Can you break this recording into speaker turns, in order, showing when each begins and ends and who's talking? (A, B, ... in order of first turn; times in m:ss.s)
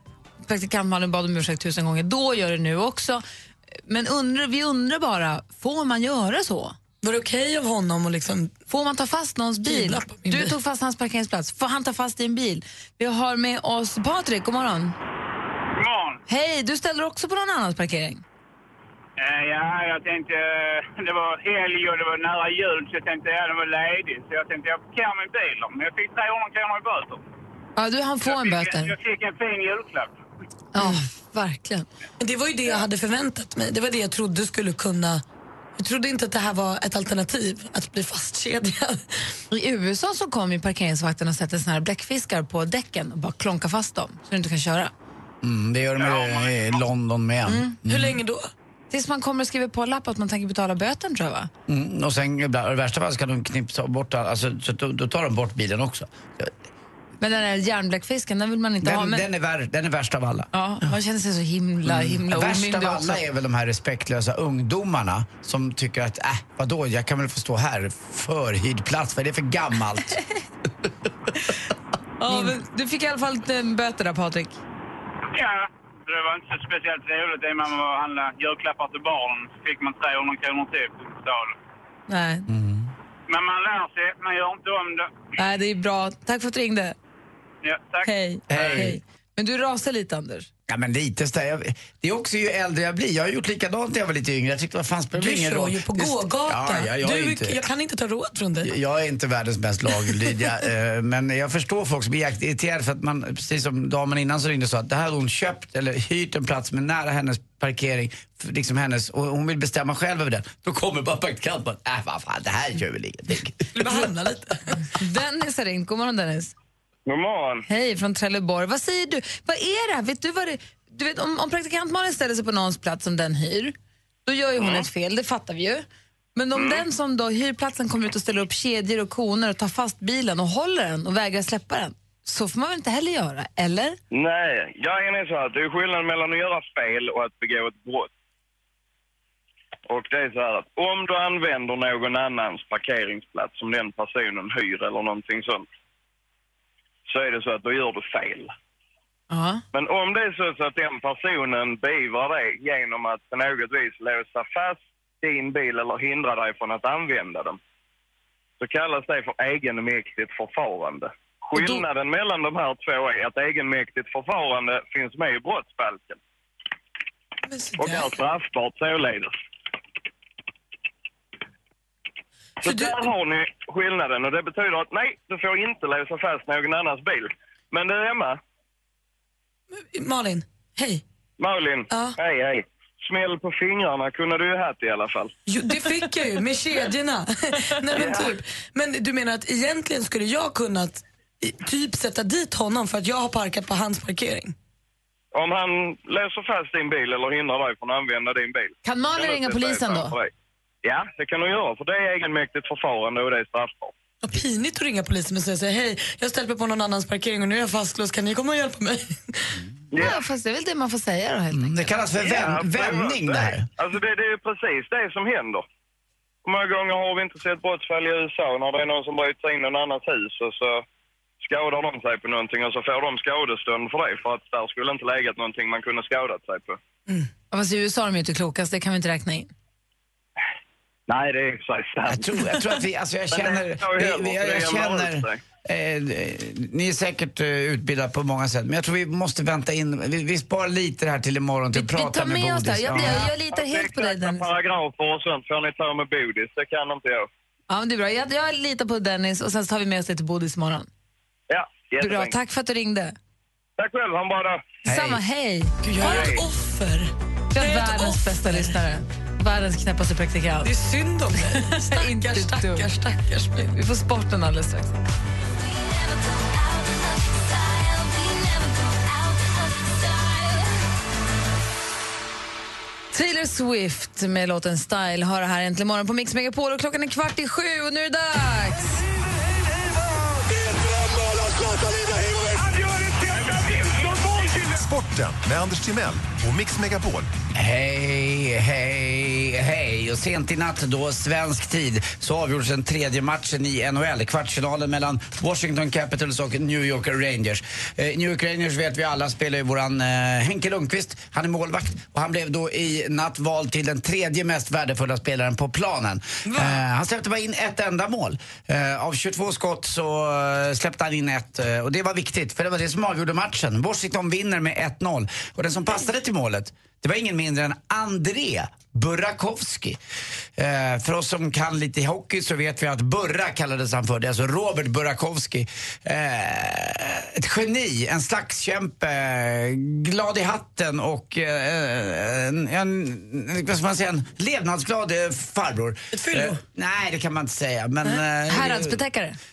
0:00.4-0:03.2 A
0:03.9-0:06.8 A
0:07.0-0:08.5 B
0:08.7-0:15.0 A
0:09.6-0:10.5 B
0:15.7-0:16.2 C
0:16.3-0:18.2 A
0:19.2-0:27.2 C
0:27.8-0:28.9 A
0:28.2-0:30.1 C
0:30.7-0:31.9 A
0:32.2-0:35.2 B
0:35.8-0:39.4 B
0:39.5-0:44.9 A
0:45.4-0:48.2 D
0:46.0-0:46.8 C
0:47.5-0:47.7 A
0:47.8-0:48.5 B
0:48.9-0:51.5 A
0:51.7-0:56.5 D
0:57.2-0:59.2 A
0:58.8-1:00.9 D
1:00.5-1:03.2 A
1:01.8-1:10.2 D
1:12.2-1:14.6 A
1:15.3-1:21.6 C
1:22.1-1:22.5 A
1:22.5-1:22.9 D
1:23.3-1:25.1 C
1:25.4-1:27.0 A
1:27.6-1:28.8 C
1:28.0-1:30.5 A
1:28.5-1:29.0 D
1:30.7-1:37.6 D
1:35.2-1:38.7 B
1:38.6-1:54.0 D
1:53.7-1:54.8 B
1:55.0-1:56.5 A
1:57.1-1:57.6 E
1:57.7-2:03.7 A
2:04.2-2:14.0 A
2:04.6-2:04.8 E
2:06.5-2:06.8 E
2:14.1-2:18.1 E
2:19.9-2:25.6 E
2:27.1-2:28.5 E
2:29.3-2:29.6 A
2:29.7-2:37.6 E
2:38.6-2:46.2 E
2:41.5-2:41.8 B
2:47.5-2:48.2 B
2:47.8-2:49.3 E
2:52.6-2:53.1 B
2:52.6-2:58.4 E
2:59.7-3:01.0 B
3:01.4-3:05.3 E
3:01.9-3:02.2 B
3:05.5-3:14.5 B
3:07.9-3:08.4 E
3:15.3-3:20.3 E
3:18.8-3:20.1 A
3:20.8-3:23.9 E
3:24.2-3:29.6 B
3:29.9-3:30.2 E
3:30.0-3:31.9 A
3:31.5-3:33.7 D
3:32.2-3:35.6 E
3:36.4-3:40.8 E
3:41.4-3:46.8 E
3:47.5-3:49.5 A
3:51.1-3:52.3 E
3:52.0-4:03.3 D
3:53.3-3:55.4 E
4:01.7-4:04.5 A
4:03.0-4:07.3 E
4:07.7-4:10.9 A
4:11.5-4:12.3 E
4:12.0-4:13.1 A
4:13.8-4:14.7 E
4:14.8-4:15.2 D
4:14.8-4:16.3 A
4:15.8-4:18.7 B
4:16.0-4:16.4 E
4:17.5-4:20.7 A
4:20.6-4:23.8 B
4:21.4-4:23.0 A
4:23.7-4:25.0 A
4:28.1-4:28.8 A
4:33.1-4:39.0 A
4:40.2-4:47.3 F
4:47.5-5:20.0 D
5:06.4-5:06.8 B
5:20.6-5:39.0 D
5:36.1-5:36.6 B
5:38.5-5:39.4 A